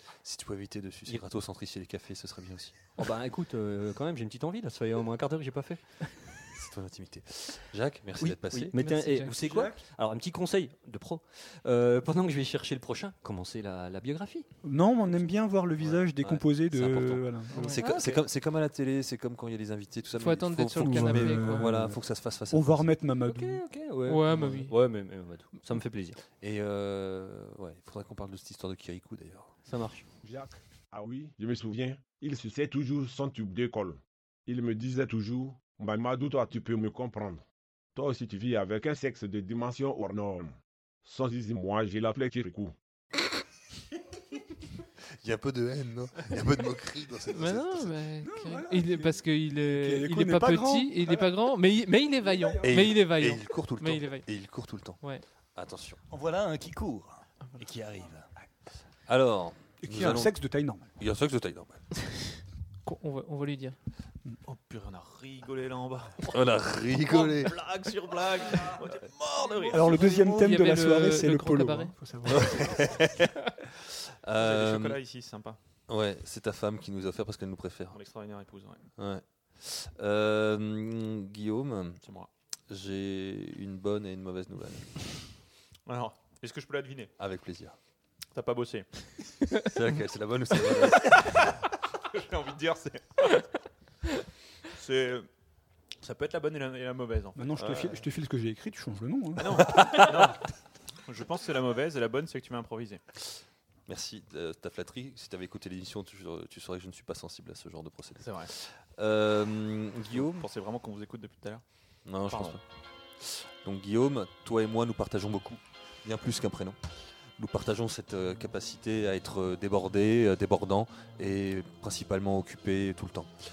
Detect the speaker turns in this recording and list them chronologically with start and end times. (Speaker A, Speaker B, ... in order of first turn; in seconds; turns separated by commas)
Speaker A: 0.2-2.9, Speaker B: 3.0-6.4, Speaker A: 6.5-8.7, Speaker B: 8.2-14.5, Speaker C: 8.7-9.4, Speaker D: 9.3-9.8, Speaker D: 14.6-17.8, Speaker B: 15.8-18.2, Speaker C: 17.5-17.8, Speaker A: 17.6-22.8, Speaker C: 20.2-21.7, Speaker D: 20.8-22.0, Speaker D: 22.5-23.6, Speaker B: 23.2-26.2, Speaker C: 24.1-24.8, Speaker A: 26.3-29.5, Speaker B: 29.7-30.1, Speaker E: 30.2-37.4, Speaker E: 37.9-42.7, Speaker A: 45.2-48.0, Speaker C: 47.3-54.3, Speaker D: 48.2-51.4, Speaker D: 52.2-52.7, Speaker A: 52.6-55.0, Speaker A: 55.5-56.0, Speaker F: 56.1-58.2, Speaker A: 59.1-60.4, Speaker D: 59.8-60.9, Speaker A: 61.0-61.8, Speaker C: 62.9-63.8, Speaker G: 64.5-70.0, Speaker A: 66.3-67.5, Speaker D: 69.7-72.8, Speaker C: 69.9-71.9, Speaker A: 72.3-73.3, Speaker A: 74.2-75.0, Speaker G: 74.4-75.6, Speaker A: 75.9-78.0, Speaker G: 77.9-78.8, Speaker A: 79.0-82.0, Speaker G: 82.0-82.3, Speaker A: 82.7-85.0, Speaker G: 85.9-87.1, Speaker A: 87.2-87.8, Speaker G: 88.3-89.3, Speaker A: 89.6-91.3, Speaker G: 90.9-91.5, Speaker G: 92.1-93.5, Speaker G: 94.7-95.3, Speaker G: 96.0-98.0, Speaker D: 97.3-99.9, Speaker G: 99.3-100.4, Speaker G: 101.0-103.0, Speaker A: 103.9-110.5, Speaker G: 108.2-108.5, Speaker G: 110.1-111.6, Speaker A: 112.0-112.6, Speaker G: 112.2-112.6, Speaker A: 113.2-116.8, Speaker A: 117.4-123.3